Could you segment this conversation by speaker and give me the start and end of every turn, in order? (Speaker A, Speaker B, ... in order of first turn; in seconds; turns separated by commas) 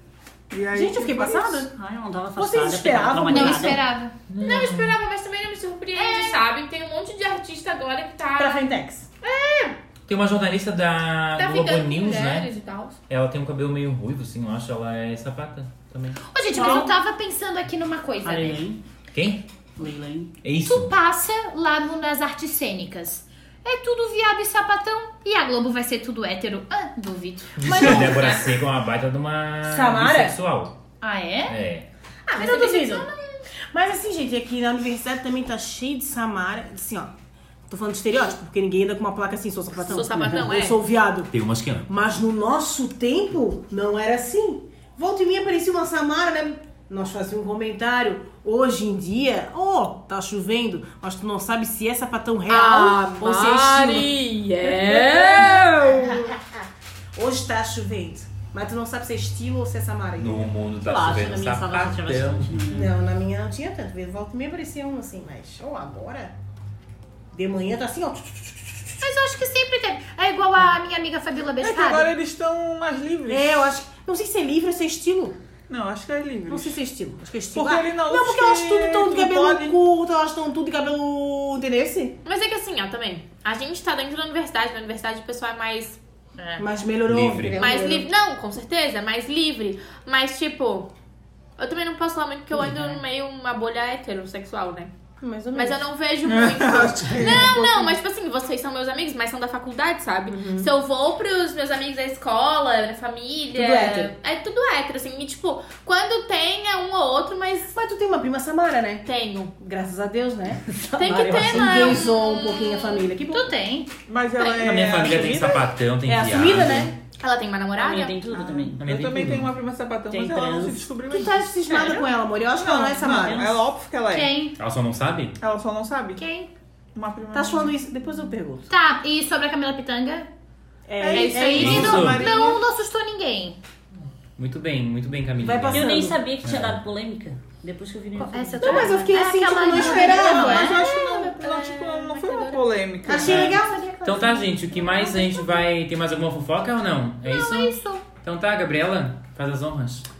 Speaker A: 0.5-1.6, Speaker B: 0.7-1.7, Speaker C: 1.7-3.8, Speaker B: 2.4-3.8, Speaker D: 3.3-4.2, Speaker E: 4.3-5.0, Speaker F: 4.4-8.7, Speaker D: 6.0-6.4, Speaker B: 8.4-9.1, Speaker F: 9.2-9.8, Speaker E: 10.1-12.5, Speaker F: 11.4-13.0, Speaker E: 13.1-16.2, Speaker D: 16.2-18.6, Speaker C: 16.6-16.8, Speaker C: 18.2-18.8, Speaker E: 19.1-19.4, Speaker C: 19.8-20.3, Speaker E: 20.4-20.9, Speaker D: 20.6-28.6, Speaker E: 27.6-30.7, Speaker B: 29.6-30.4, Speaker D: 31.0-31.6, Speaker E: 31.5-31.9, Speaker D: 32.3-33.1, Speaker B: 32.4-33.1, Speaker F: 32.4-33.0, Speaker B: 33.7-37.1, Speaker B: 37.7-41.3, Speaker F: 39.8-40.8, Speaker C: 40.1-40.4, Speaker E: 41.3-41.9, Speaker B: 41.9-54.1, Speaker F: 52.5-56.3, Speaker B: 54.6-56.6, Speaker B: 57.1-60.5, Speaker E: 60.2-62.7, Speaker C: 60.9-63.0, Speaker B: 62.7-66.3, Speaker B: 67.3-69.0, Speaker D: 69.0-72.1, Speaker A: 71.6-73.6, Speaker B: 73.3-75.4, Speaker A: 75.7-76.8, Speaker B: 76.5-82.1, Speaker A: 77.5-79.8, Speaker F: 82.2-86.0, Speaker D: 86.4-86.7, Speaker B: 86.6-88.0, Speaker E: 87.0-87.8, Speaker F: 87.5-90.9, Speaker F: 91.6-94.9, Speaker B: 95.2-95.8, Speaker F: 95.5-107.7, Speaker A: 96.3-98.0, Speaker B: 100.3-100.7, Speaker B: 103.5-104.1, Speaker B: 107.7-109.0, Speaker F: 109.0-109.5, Speaker B: 109.6-110.7, Speaker C: 110.7-112.0, Speaker F: 111.0-113.1, Speaker B: 111.3-113.5, Speaker D: 113.3-113.9, Speaker A: 114.1-115.8, Speaker E: 114.6-116.9, Speaker B: 116.0-116.9, Speaker F: 117.2-118.2, Speaker C: 117.8-118.9, Speaker B: 118.4-118.7, Speaker E: 118.8-119.5, Speaker A: 118.8-122.0, Speaker C: 120.1-120.9, Speaker B: 121.1-123.6, Speaker C: 121.7-122.0, Speaker A: 122.5-124.3, Speaker C: 123.0-123.6, Speaker D: 124.1-124.5, Speaker E: 124.6-125.4, Speaker A: 125.4-126.2, Speaker D: 126.2-126.5, Speaker A: 126.9-127.7, Speaker B: 127.3-128.7, Speaker D: 128.7-130.3, Speaker B: 130.9-132.3, Speaker A: 131.0-132.6, Speaker D: 131.1-133.6, Speaker E: 131.6-132.3, Speaker E: 134.4-136.8, Speaker B: 135.4-136.2, Speaker C: 135.7-138.9, Speaker D: 138.2-142.3, Speaker F: 138.6-139.0, Speaker B: 138.6-140.8, Speaker A: 139.8-143.6, Speaker F: 140.8-142.6, Speaker B: 143.1-144.4, Speaker D: 143.1-145.4, Speaker E: 143.2-150.1, Speaker D: 147.2-148.1